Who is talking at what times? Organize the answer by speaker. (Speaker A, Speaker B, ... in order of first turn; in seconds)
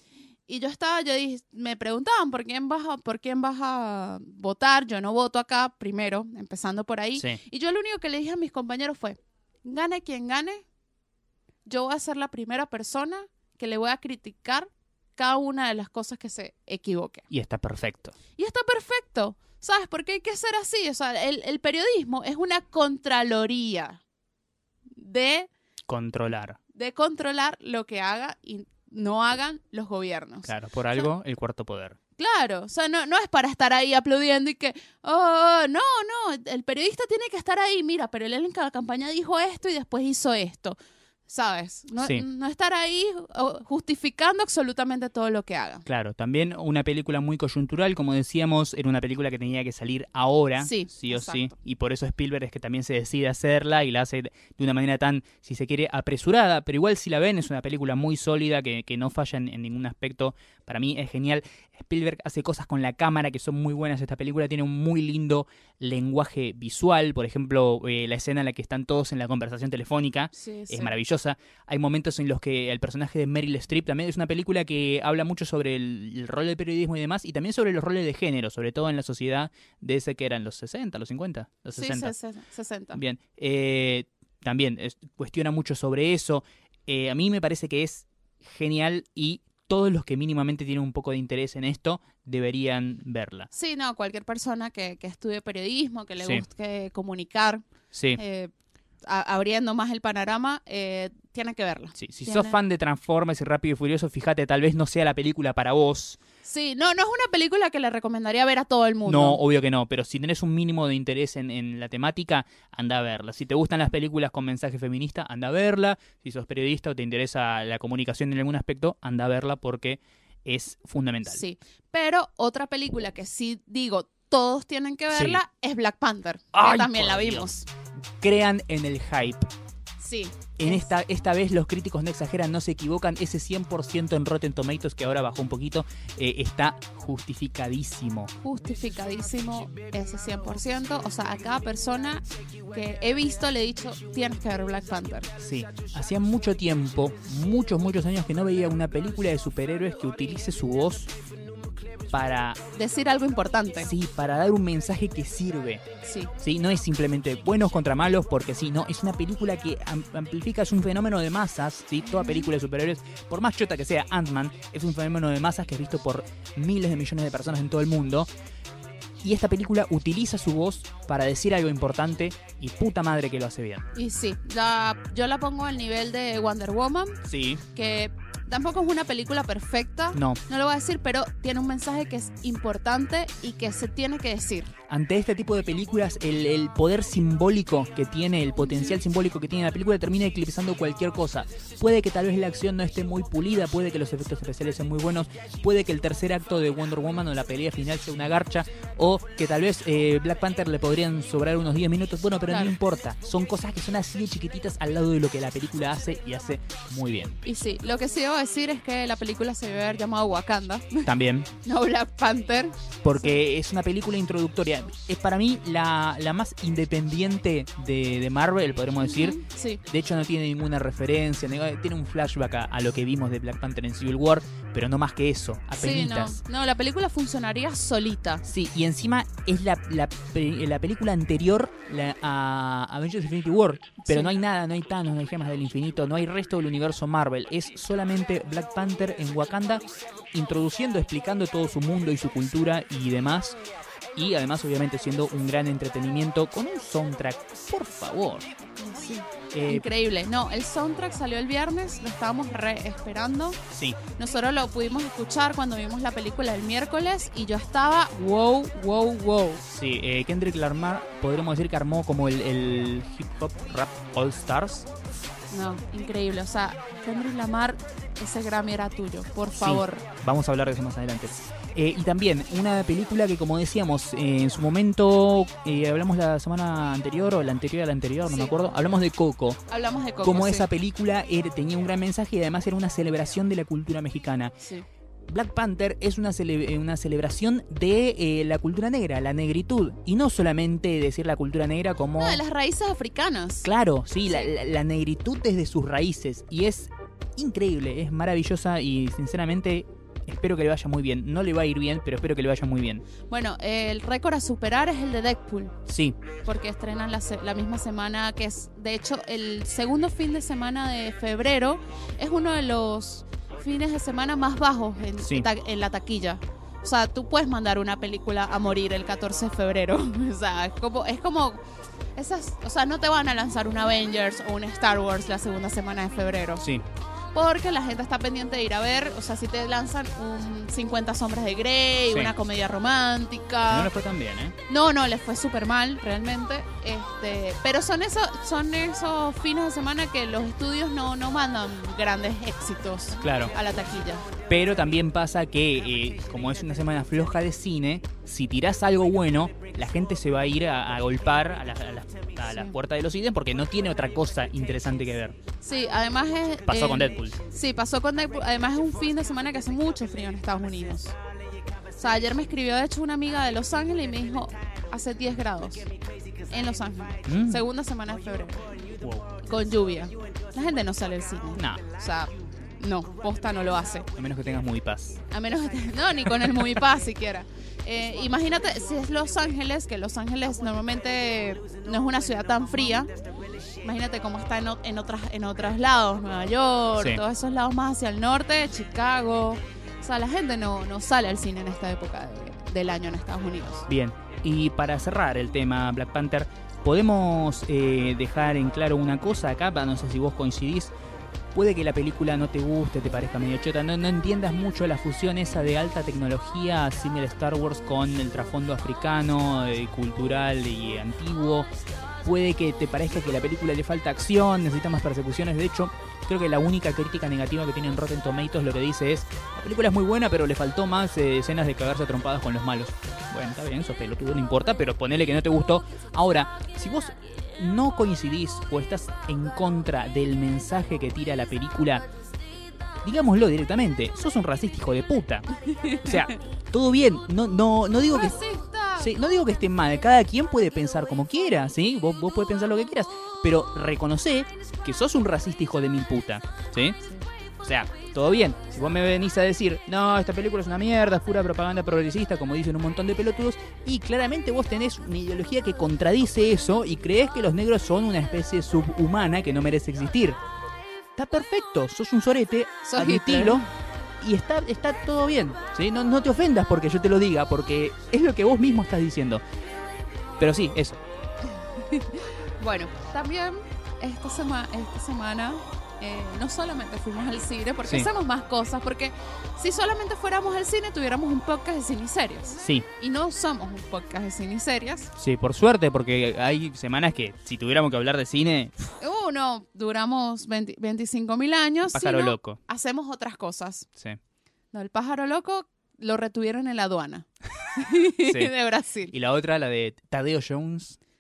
Speaker A: 0.5-10.6, 11.7-17.2, 18.4-24.0, 24.9-25.5, 26.7-31.1, 32.2-40.8, 41.3-45.9, 50.6-51.5, 70.3-70.9, 81.7-83.0, 93.5-98.5, 99.0-102.6, 106.4-109.4, 121.3-127.7, 130.0-130.9, 138.4-145.3, 152.7-153.9, 156.0-156.3, 162.1-162.5, 173.9-177.2, 177.7-184.7, 188.6-189.0, 202.5-202.7, 207.4-211.1, 211.6-213.4, 219.0-219.8, 225.8-228.4, 234.1-234.3, 248.8-253.6, 254.2-259.6, 265.5-270.1, 278.2-278.5, 279.7-280.7, 284.6-284.9, 292.2-293.7, 303.3-305.8, 306.4-321.6, 322.1-326.6, 327.3-333.9, 334.7-344.3, 352.5-352.7, 355.6-361.1, 361.9-365.9, 366.4-368.8, 369.4-374.1, 375.3-383.1, 383.8-393.9, 435.6-436.4, 438.1-439.1, 462.8-463.7, 471.6-485.1, 489.0-493.9, 494.7-499.1
Speaker B: 17.3-18.1, 25.9-26.6, 30.4-32.0, 42.0-42.2, 45.9-82.1, 82.9-93.5, 97.9-98.2, 102.0-106.2, 109.0-121.4, 125.1-125.4, 126.5-127.5, 128.2-129.5, 130.6-138.3, 145.4-151.1, 152.1-152.6, 153.8-155.8, 156.4-168.3, 169.2-173.8, 177.2-177.6, 180.1-180.4, 184.9-207.4, 211.0-211.5, 213.0-226.4, 228.4-243.6, 244.2-248.5, 249.5-249.9, 253.7-254.0, 259.6-264.9, 269.6-279.6, 280.2-284.5, 285.3-292.4, 293.6-303.0, 305.9-306.2, 315.2-315.5, 333.7-334.6, 343.2-343.5, 344.4-355.4, 356.6-357.4, 367.2-367.7, 369.0-369.4, 371.6-371.8, 374.1-375.2, 386.9-387.2, 393.9-400.9, 401.5-411.7, 412.2-432.0, 433.0-435.5, 436.0-438.4, 439.0-447.0, 447.6-460.4, 461.1-463.6, 464.2-469.4, 470.4-471.0, 482.6-482.9, 485.2-488.9, 491.9-492.6, 498.2-498.5, 499.1-501.0